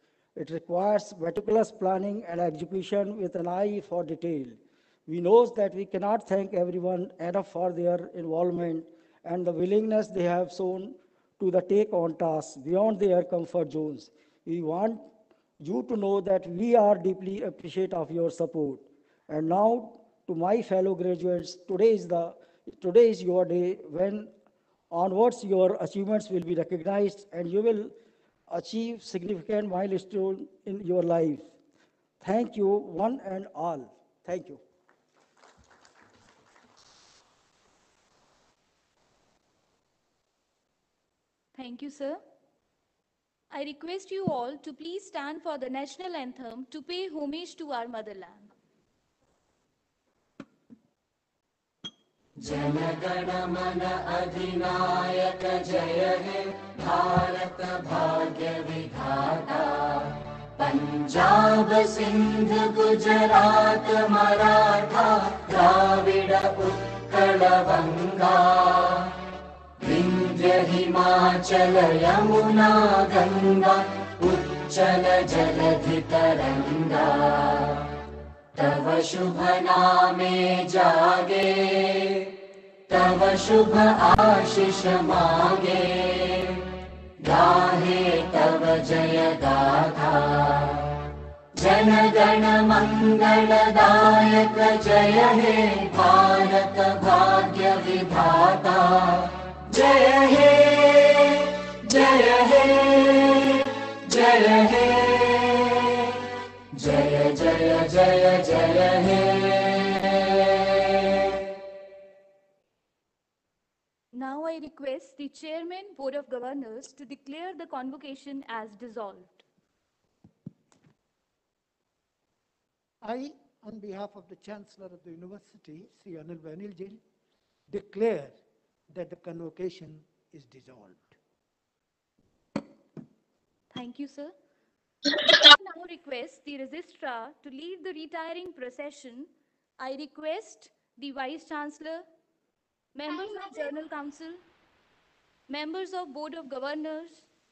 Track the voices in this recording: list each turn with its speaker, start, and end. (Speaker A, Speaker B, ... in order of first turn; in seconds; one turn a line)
Speaker A: 0.4-15.1
Speaker A: 15.6-24.3
Speaker A: 24.9-27.9
Speaker A: 28.5-31.5
Speaker A: 32.2-34.6
Speaker B: 41.5-42.2
Speaker B: 43.5-48.5
Speaker C: 52.4-69.1
Speaker C: 69.8-77.8
Speaker C: 78.6-82.2
Speaker C: 82.9-86.6
Speaker C: 87.2-90.9
Speaker C: 91.6-105.8
Speaker C: 106.8-110.2
Speaker B: 114.1-119.4
Speaker D: 123.0-127.0
Speaker D: 127.7-128.4
Speaker D: 128.9-131.2
Speaker B: 133.7-134.3
Speaker B: 135.4-139.3
Speaker B: 139.8-142.1
Speaker B: 142.9-144.4
Speaker B: 145.5-147.3